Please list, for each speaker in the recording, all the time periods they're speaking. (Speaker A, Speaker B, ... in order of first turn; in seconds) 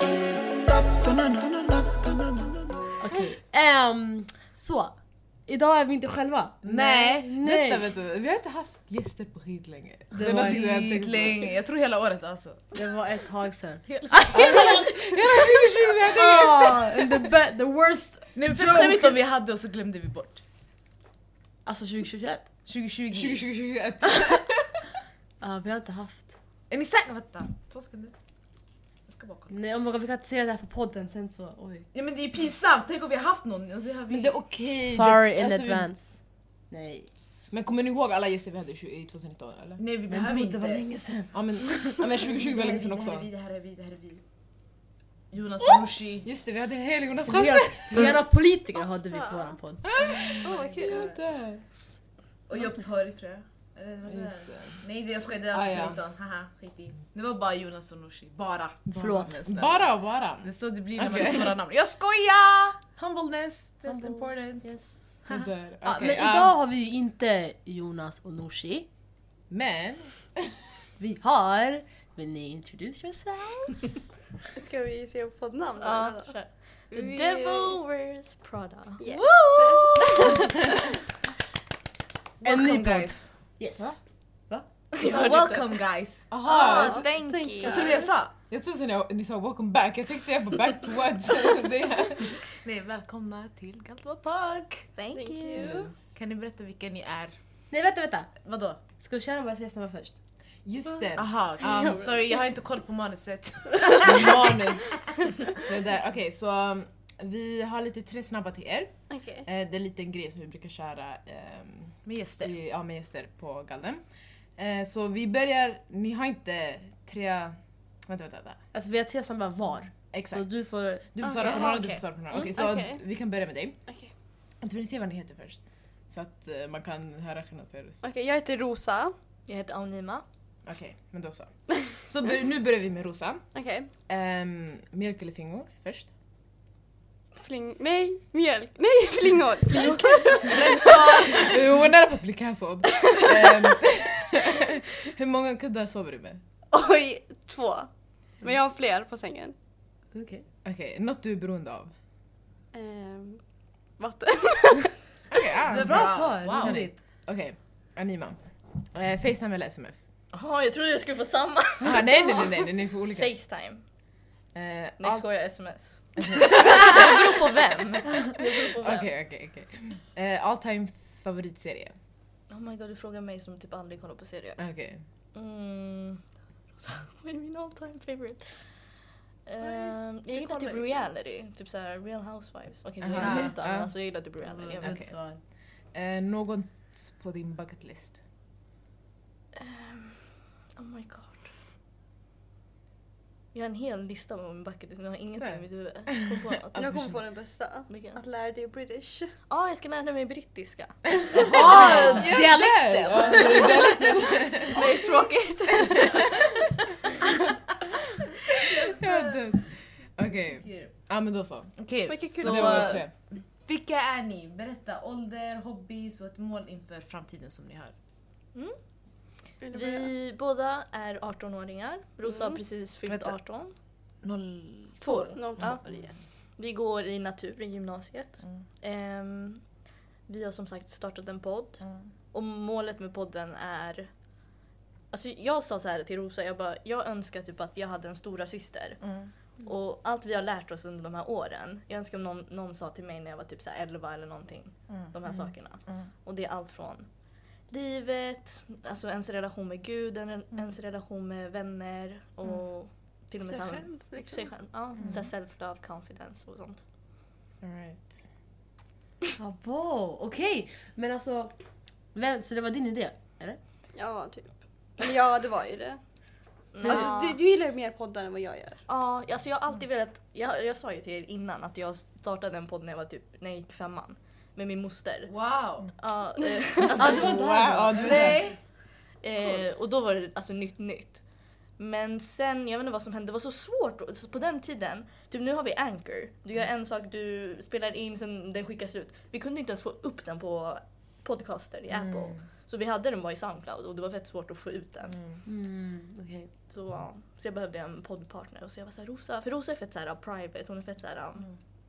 Speaker A: 3.0-5.0, 5.5-7.9, 10.1-11.5, 12.7-15.5, 16.0-19.2, 21.6-22.5, 25.4-26.4, 29.5-31.9, 34.1-36.2, 36.7-37.1, 40.1-42.0, 47.2-49.8, 58.9-59.4, 63.9-65.2, 65.8-68.9, 71.0-73.9, 82.4-84.0, 97.7-100.2, 118.7-121.7, 150.1-150.4, 155.7-156.9, 180.4-180.7, 183.2-183.5, 184.8-185.4, 259.4-261.5, 262.1-263.6, 276.9-278.4, 295.4-296.5
Speaker B: 6.6-7.0, 10.2-12.7, 13.9-14.7, 18.3-20.4, 22.6-23.5, 26.7-28.1, 29.1-29.6, 31.9-34.5, 39.8-40.9, 42.2-44.2, 45.3-46.3, 50.1-51.2, 52.5-66.2, 82.4-83.2, 85.0-86.3, 87.6-88.3, 92.4-94.9, 96.1-97.3, 98.4-98.8, 101.2-104.6, 112.0-112.5, 140.4-141.5, 155.6-156.9, 183.2-183.5, 201.3-203.7, 208.6-209.4, 210.3-210.9, 211.8-217.9, 223.1-223.3, 224.2-225.9, 231.8-232.1, 239.0-239.3, 275.3-275.9, 277.0-277.3, 277.9-278.6
Speaker C: 6.7-11.3, 14.3-17.1, 23.1-24.8, 34.2-35.9, 37.5-39.8, 41.3-43.3, 46.2-48.1, 49.8-51.6, 54.0-54.8, 55.5-56.0, 59.3-61.6, 65.2-66.5, 69.5-70.5, 79.8-80.3, 86.3-87.1, 88.4-92.4, 95.6-95.9, 100.6-101.4, 104.0-108.9, 109.4-114.0, 114.6-118.6, 120.1-123.8, 124.6-128.0, 130.7-133.5, 134.1-136.1, 140.7-146.4, 150.6-151.9, 155.3-160.0, 161.8-163.3, 164.5-165.2, 166.2-167.2, 168.7-171.9, 174.6-175.0, 183.0-184.1, 184.8-185.1, 185.9-188.2, 195.4-195.6, 201.3-205.0, 205.8-206.6, 208.9-211.8, 212.3-213.1, 257.6-258.2, 276.9-278.4, 291.9-292.4, 295.1-295.4
Speaker D: 49.1-49.6, 50.4-51.0, 74.5-76.4, 76.9-77.8, 79.0-80.7, 86.5-88.0, 95.1-95.9, 101.6-102.4, 109.1-109.5, 121.4-123.0, 128.0-129.1, 133.5-133.9, 137.4-141.4, 146.7-147.9, 148.4-149.5, 152.7-153.4, 154.0-155.0, 196.7-199.3, 201.4-202.5, 203.1-204.0, 204.7-206.4, 212.1-213.0, 219.6-220.1, 222.2-222.6, 225.0-226.1, 253.4-254.7, 263.9-266.0, 266.8-268.8
Speaker E: 75.8-79.0, 84.9-85.8, 86.5-87.8, 95.0-95.8, 122.3-122.6, 129.5-130.2, 160.3-163.8, 165.0-169.1, 172.5-174.6, 175.3-176.2, 176.8-178.7, 179.4-185.0, 189.6-191.6, 193.5-196.9, 197.9-198.2, 199.5-202.2, 219.7-223.7, 225.0-225.8, 226.6-229.7, 230.3-234.1, 235.1-247.1, 247.7-256.8, 266.7-267.4, 268.9-275.3, 276.0-277.4, 279.2-281.2, 281.8-295.2, 296.7-301.5